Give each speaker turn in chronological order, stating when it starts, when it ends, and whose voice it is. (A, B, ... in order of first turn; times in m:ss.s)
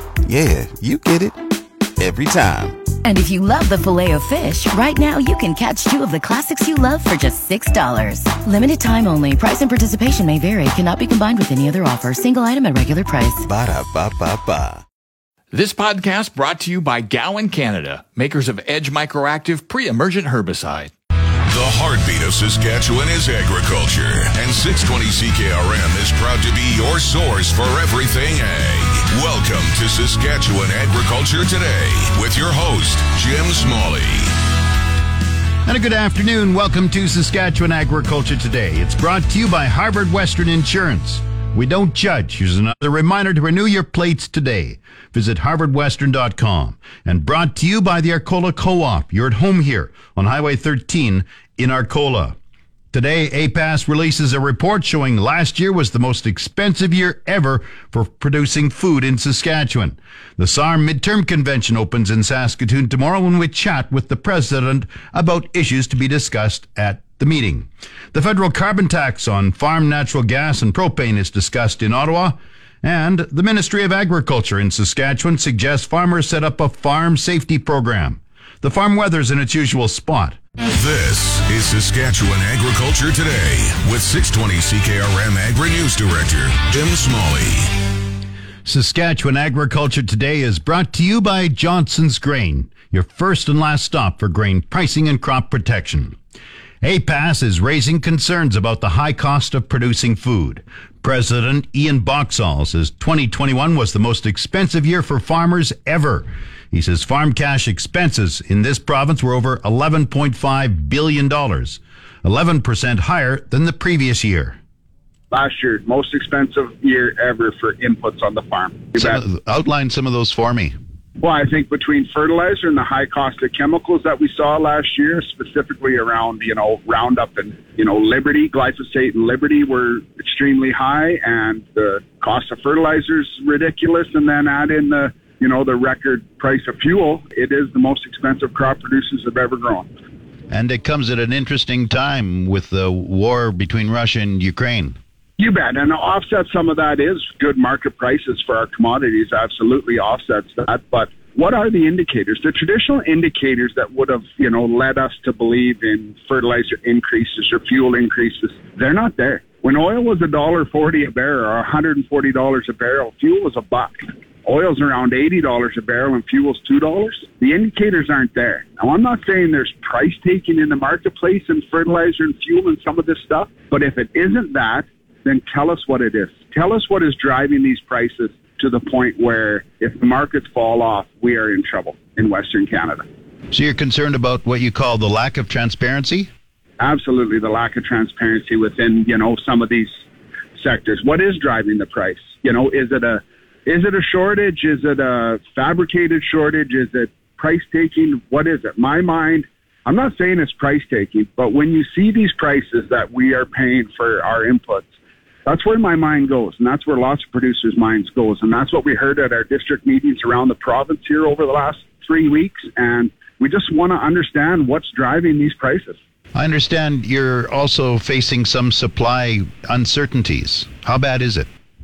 0:00.2-0:01.4 A
0:02.0-0:02.8 A
0:03.0-0:13.4 B
0:13.4-0:14.8 A
0:15.5-0:20.9 C
0:21.5-0:34.3 D
0:35.6-0:52.4 E
0:52.9-1:20.4 E
1:20.7-1:27.7 D
1:28.6-1:36.2 E
1:36.8-1:54.6 E
1:55.3-1:59.2 F
1:59.0-2:00.7 E
2:01.2-2:19.9 F
2:20.5-2:25.0 E
2:25.4-3:03.0 F
3:03.5-3:06.3 E
3:06.8-3:10.0 F
3:10.6-3:24.9 F
3:25.4-3:36.0 F
3:36.3-3:41.5 E